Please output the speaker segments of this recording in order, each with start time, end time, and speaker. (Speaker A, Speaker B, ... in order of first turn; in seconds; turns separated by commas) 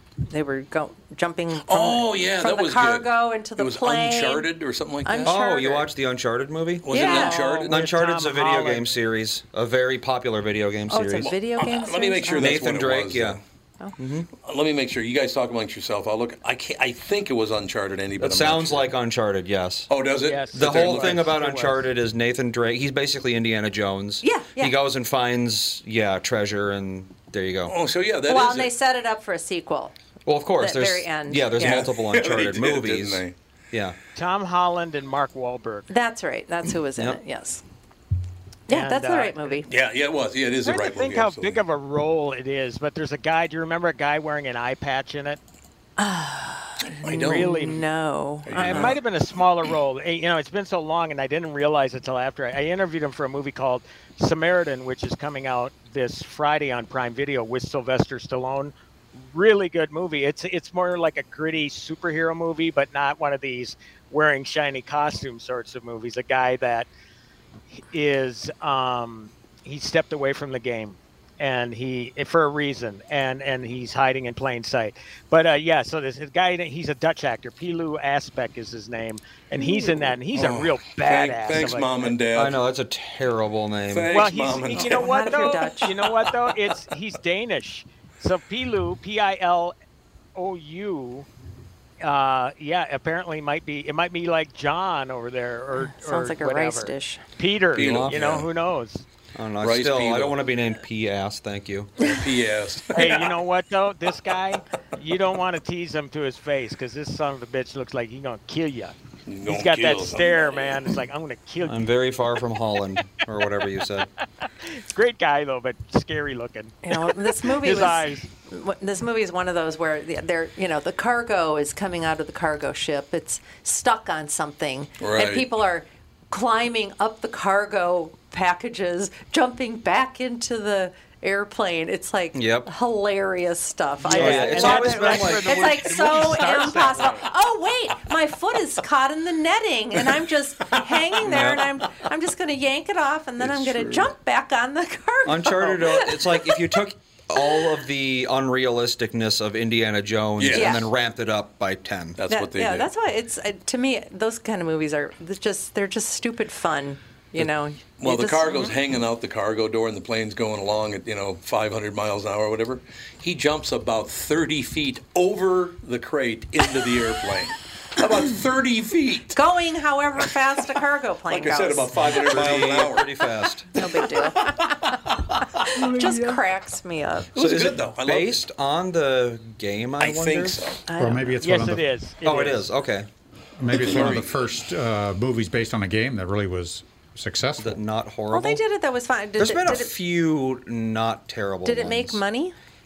Speaker A: 0.3-4.5, Speaker B: 1.6-5.4, Speaker A: 5.0-5.9, Speaker C: 5.2-11.3, Speaker B: 6.8-7.7, Speaker A: 6.9-7.3, Speaker D: 7.1-8.9, Speaker A: 10.9-12.6, Speaker B: 11.2-13.4, Speaker C: 12.4-13.4, Speaker C: 14.0-14.3, Speaker B: 14.4-18.9, Speaker C: 18.2-19.9, Speaker B: 19.9-21.3, Speaker D: 20.2-21.9, Speaker C: 20.5-27.7, Speaker A: 24.2-24.7, Speaker B: 27.7-28.7, Speaker A: 28.3-29.9, Speaker C: 30.3-34.0, Speaker A: 30.6-31.8, Speaker B: 31.6-33.3, Speaker D: 34.1-35.9, Speaker A: 35.9-37.6, Speaker C: 37.0-37.2, Speaker A: 38.7-39.7, Speaker D: 38.7-39.6, Speaker B: 39.7-41.6, Speaker D: 40.6-45.4, Speaker A: 46.0-49.0, Speaker B: 47.0-47.5, Speaker D: 47.1-47.8, Speaker B: 48.5-49.0, Speaker D: 48.6-66.9, Speaker D: 67.7-82.1, Speaker A: 79.6-80.1, Speaker B: 80.3-82.6, Speaker C: 82.3-84.2, Speaker B: 83.9-86.1, Speaker D: 84.1-89.7, Speaker A: 84.7-86.0, Speaker D: 90.3-91.3, Speaker D: 92.0-99.0, Speaker A: 95.8-97.2, Speaker C: 97.7-98.4, Speaker B: 97.7-98.5, Speaker C: 99.3-101.9, Speaker B: 99.6-100.4, Speaker B: 102.0-103.3, Speaker D: 102.9-108.9, Speaker B: 109.3-110.9, Speaker D: 109.5-111.8, Speaker C: 111.6-114.1, Speaker D: 114.6-118.3, Speaker A: 116.8-146.5, Speaker B: 125.0-125.5, Speaker C: 132.3-132.7, Speaker D: 134.0-137.1, Speaker C: 134.1-135.8, Speaker B: 135.7-136.8, Speaker C: 141.2-141.6, Speaker B: 143.4-144.1, Speaker C: 145.2-152.2, Speaker B: 150.4-150.9, Speaker A: 150.5-150.9, Speaker B: 152.2-152.9, Speaker A: 152.3-158.7, Speaker B: 158.0-169.4, Speaker A: 169.3-172.0, Speaker B: 171.3-173.2, Speaker C: 172.0-173.7, Speaker A: 173.7-175.0, Speaker B: 174.3-174.8, Speaker B: 175.7-176.1, Speaker A: 175.7-177.3, Speaker B: 177.3-178.4, Speaker C: 177.3-180.8, Speaker B: 180.0-180.8, Speaker A: 180.9-181.4, Speaker E: 180.9-181.9, Speaker D: 181.4-182.7, Speaker C: 182.2-183.1, Speaker E: 183.6-187.8, Speaker C: 183.8-184.3, Speaker B: 183.8-184.2, Speaker C: 187.6-188.6, Speaker A: 188.3-189.9, Speaker C: 189.4-192.2, Speaker A: 191.6-192.5